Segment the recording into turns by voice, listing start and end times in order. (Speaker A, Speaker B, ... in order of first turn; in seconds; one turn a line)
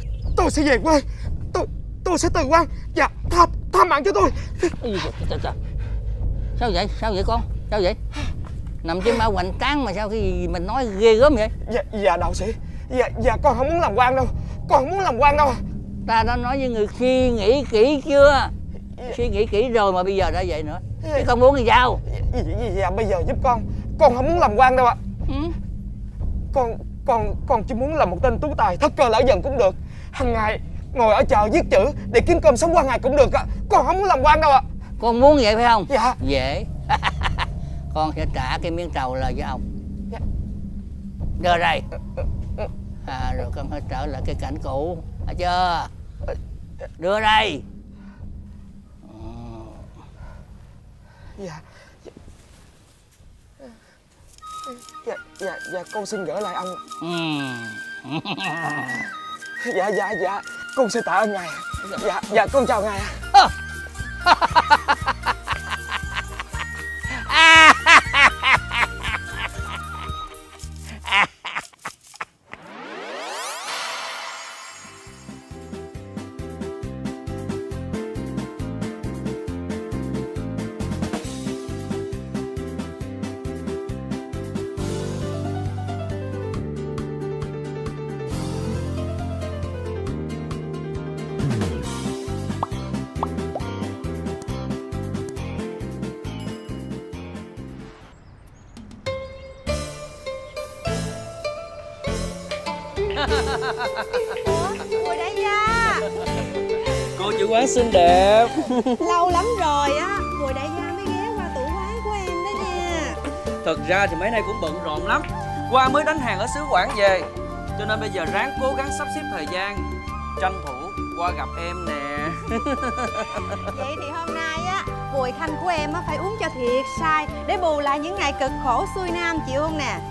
Speaker A: 0.3-4.7
Speaker B: 4.8-5.5
Speaker B: 6.6-8.0
Speaker B: 8.8-11.5
Speaker A: 11.6-15.6
Speaker B: 16.1-18.5
Speaker B: 19.1-22.0
Speaker A: 21.0-21.3
Speaker A: 22.1-25.0
Speaker B: 25.3-25.5
Speaker A: 26.5-34.6
Speaker B: 35.0-39.6
Speaker A: 35.9-36.1
Speaker B: 41.4-41.9
Speaker B: 43.0-45.9
Speaker B: 47.0-47.6
Speaker B: 49.0-49.9
Speaker A: 51.4-52.1
Speaker A: 55.0-56.8
Speaker B: 57.0-59.0
Speaker A: 59.6-63.1
Speaker B: 67.3-68.2
Speaker C: 103.3-104.0
Speaker D: 104.3-106.0
Speaker C: 107.1-109.0
Speaker D: 109.0-113.2
Speaker C: 113.6-117.2
Speaker C: 117.8-123.3
Speaker D: 123.5-130.0